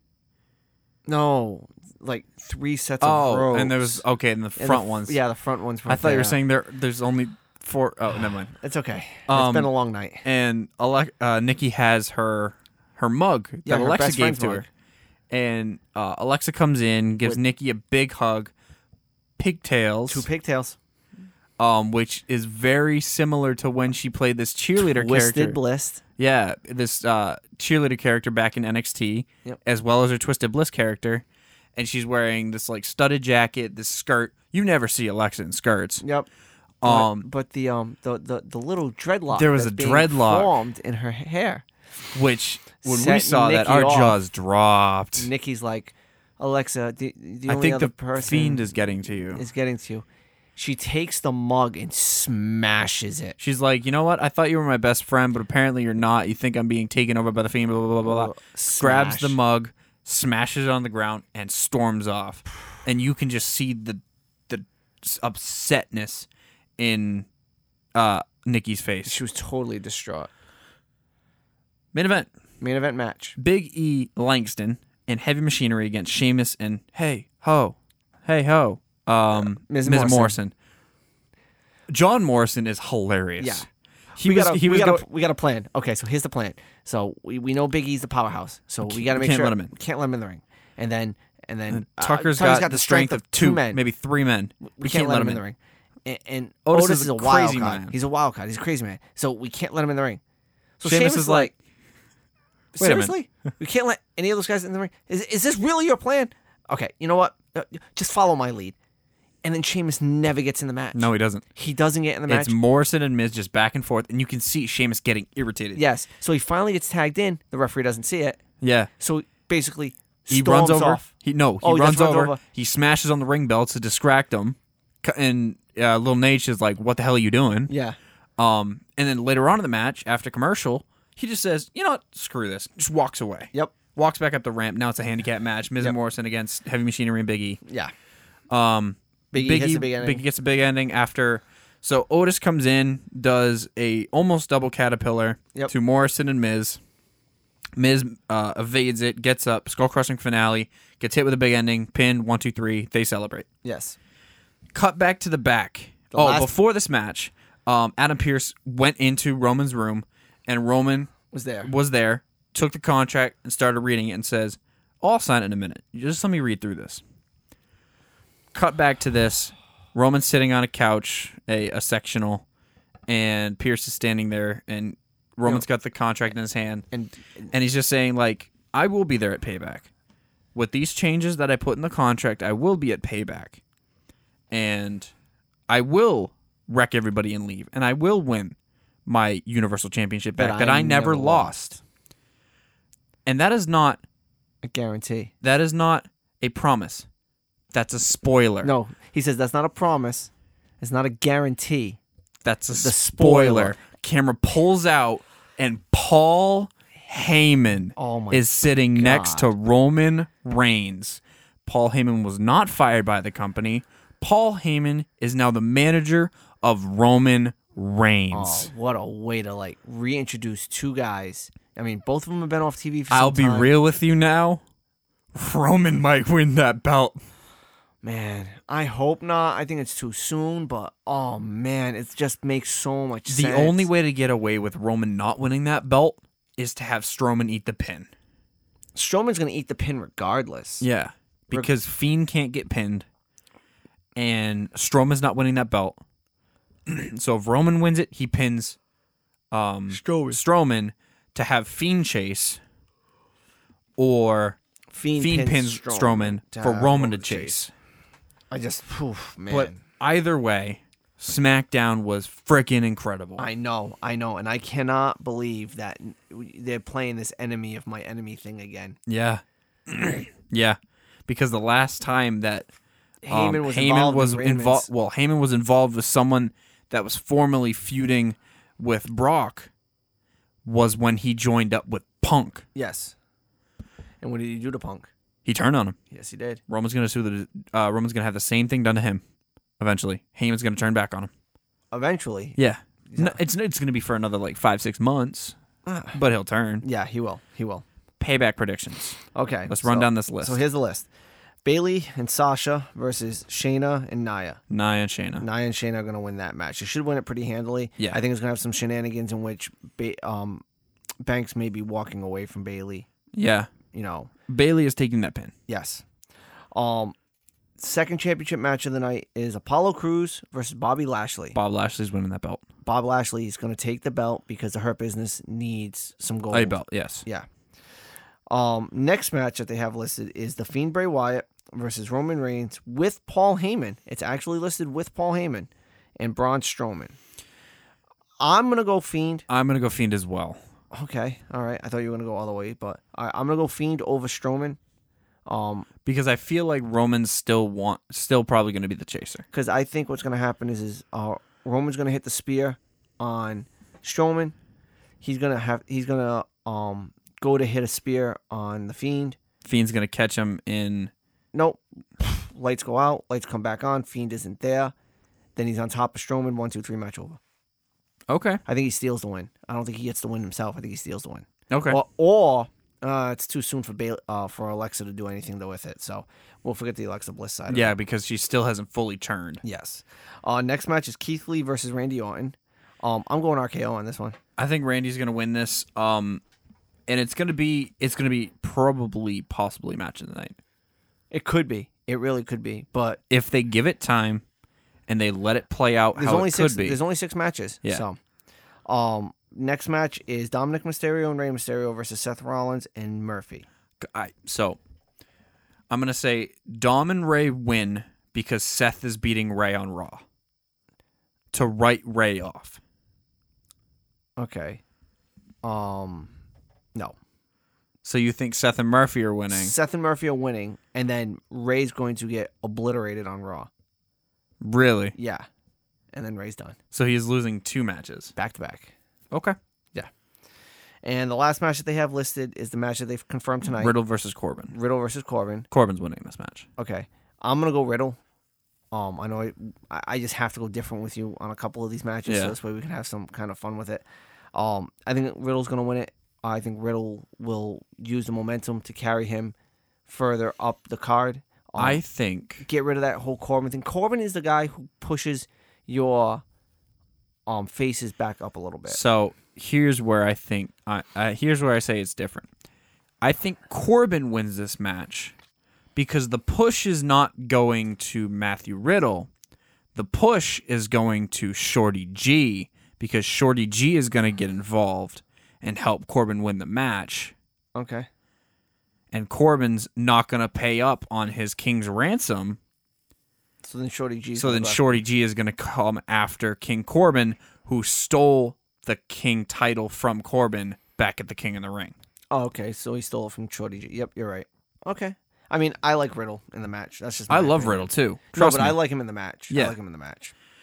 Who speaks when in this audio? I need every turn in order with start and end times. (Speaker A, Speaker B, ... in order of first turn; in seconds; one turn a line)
Speaker A: 1.1-4.0
Speaker B: 3.0-5.2
Speaker A: 4.6-6.4
Speaker B: 5.9-8.5
Speaker A: 8.5-10.2
Speaker B: 9.3-9.7
Speaker B: 10.2-14.7
Speaker A: 13.6-14.7
Speaker B: 15.3-18.5
Speaker B: 19.4-20.2
Speaker A: 20.1-20.8
Speaker B: 21.6-25.6
Speaker A: 24.8-26.0
Speaker B: 26.2-31.2
Speaker B: 31.8-36.0
Speaker A: 36.0-36.3
Speaker B: 36.8-37.3
Speaker A: 36.8-41.6
Speaker B: 39.3-40.5
Speaker B: 42.1-45.3
Speaker A: 42.8-44.2
Speaker A: 45.2-48.6
Speaker B: 47.5-49.4
Speaker A: 49.3-53.4
Speaker B: 53.4-67.3
Speaker A: 58.0-59.4
Speaker B: 67.9-69.2
Speaker A: 69.0-70.3
Speaker B: 71.9-72.3
Speaker A: 72.6-73.3
Speaker B: 73.4-80.5
Speaker A: 79.3-80.4
Speaker B: 81.9-85.0
Speaker A: 83.4-93.8
Speaker B: 88.8-89.7
Speaker B: 91.7-95.4
Speaker A: 94.7-100.2
Speaker B: 96.7-98.0
Speaker A: 100.8-101.5
Speaker B: 100.8-101.5
Speaker A: 102.7-108.8
Speaker B: 102.8-103.1
Speaker A: 109.4-112.5
Speaker B: 110.9-111.4
Speaker B: 112.3-115.8
Speaker A: 115.7-118.4
Speaker B: 118.6-118.9
Speaker A: 119.0-121.1
Speaker B: 120.3-127.7
Speaker A: 121.6-122.4
Speaker A: 127.7-128.0
Speaker B: 128.4-137.6
Speaker A: 137.6-137.9
Speaker B: 138.5-146.8
Speaker A: 139.3-140.2
Speaker B: 147.8-153.5
Speaker A: 153.6-154.0
Speaker B: 154.7-167.0
Speaker A: 156.1-156.5
Speaker A: 161.3-161.7
Speaker B: 168.5-172.4
Speaker B: 173.1-176.8
Speaker A: 176.9-177.5
Speaker B: 177.5-179.9
Speaker B: 180.5-183.6
Speaker B: 184.5-185.1
Speaker B: 185.7-191.8
Speaker A: 190.3-191.6
Speaker B: 193.2-194.0
Speaker A: 194.6-195.3
Speaker B: 195.4-197.1
Speaker B: 197.7-198.7
Speaker A: 198.6-202.0
Speaker B: 202.4-218.7
Speaker A: 202.7-203.8
Speaker A: 208.0-209.5
Speaker A: 218.3-223.7
Speaker B: 223.1-224.6
Speaker B: 225.3-227.2
Speaker A: 228.0-233.9
Speaker B: 233.2-238.1
Speaker A: 238.9-240.8
Speaker B: 240.8-243.1
Speaker B: 244.2-246.0
Speaker B: 246.9-248.8
Speaker B: 249.5-252.6
Speaker A: 249.9-250.4
Speaker B: 254.0-254.6
Speaker A: 254.9-257.6
Speaker B: 255.2-257.7
Speaker A: 258.5-259.8
Speaker B: 259.5-263.5
Speaker A: 263.4-269.0
Speaker B: 269.1-272.7
Speaker A: 273.2-274.9
Speaker B: 273.3-279.7
Speaker B: 280.6-282.6
Speaker A: 282.7-283.1
Speaker A: 284.2-285.1
Speaker B: 285.4-286.0
Speaker A: 286.1-286.6
Speaker B: 286.7-289.2
Speaker B: 289.8-291.3
Speaker A: 291.9-292.6
Speaker B: 292.6-295.6
Speaker A: 293.1-293.4
Speaker A: 295.8-296.2
Speaker B: 296.1-296.8
Speaker A: 296.8-297.8
Speaker B: 298.2-300.6
Speaker A: 299.3-301.1
Speaker A: 301.6-304.6
Speaker B: 304.7-305.4
Speaker A: 305.4-310.6
Speaker A: 311.2-313.1
Speaker B: 313.3-313.7
Speaker A: 313.9-314.3
Speaker B: 314.5-315.5
Speaker A: 315.7-316.0
Speaker A: 316.7-317.1
Speaker A: 317.8-321.6
Speaker B: 321.5-322.6
Speaker A: 322.8-327.5
Speaker B: 326.5-327.2
Speaker A: 328.5-337.2
Speaker A: 338.4-339.4
Speaker B: 339.5-340.6
Speaker A: 340.9-344.8
Speaker A: 345.4-345.9
Speaker B: 346.0-349.5
Speaker A: 349.5-354.5
Speaker A: 355.2-359.4
Speaker B: 359.6-361.1
Speaker A: 361.5-364.9
Speaker A: 365.6-367.4
Speaker B: 368.3-368.6
Speaker A: 368.6-377.9
Speaker B: 371.7-372.0
Speaker B: 377.7-379.6
Speaker A: 379.6-384.4
Speaker B: 384.6-386.4
Speaker B: 387.1-390.6
Speaker A: 391.3-393.2
Speaker B: 393.3-394.4
Speaker B: 395.1-397.0
Speaker A: 396.1-398.2
Speaker A: 398.9-403.6
Speaker B: 404.0-404.8
Speaker B: 405.9-410.2
Speaker B: 411.5-412.8
Speaker A: 414.4-414.8
Speaker A: 415.6-416.3
Speaker B: 418.0-419.7
Speaker A: 419.5-423.7
Speaker B: 424.6-425.1
Speaker A: 425.1-425.4
Speaker A: 426.1-426.8
Speaker B: 426.9-428.3
Speaker A: 428.4-428.9
Speaker A: 431.0-433.9
Speaker B: 433.7-434.7
Speaker A: 434.7-435.7
Speaker B: 435.7-436.7
Speaker A: 436.8-438.2
Speaker A: 438.9-449.5
Speaker B: 442.2-442.5
Speaker A: 450.1-452.0
Speaker B: 451.8-452.7
Speaker A: 452.6-456.4
Speaker A: 457.5-459.0
Speaker B: 458.9-462.5
Speaker B: 463.2-465.3
Speaker B: 465.9-469.3
Speaker B: 469.9-477.3
Speaker A: 477.7-478.1
Speaker B: 479.1-482.6
Speaker A: 483.6-485.0
Speaker B: 484.4-491.9
Speaker A: 492.3-500.3
Speaker B: 497.3-498.8
Speaker B: 499.5-499.8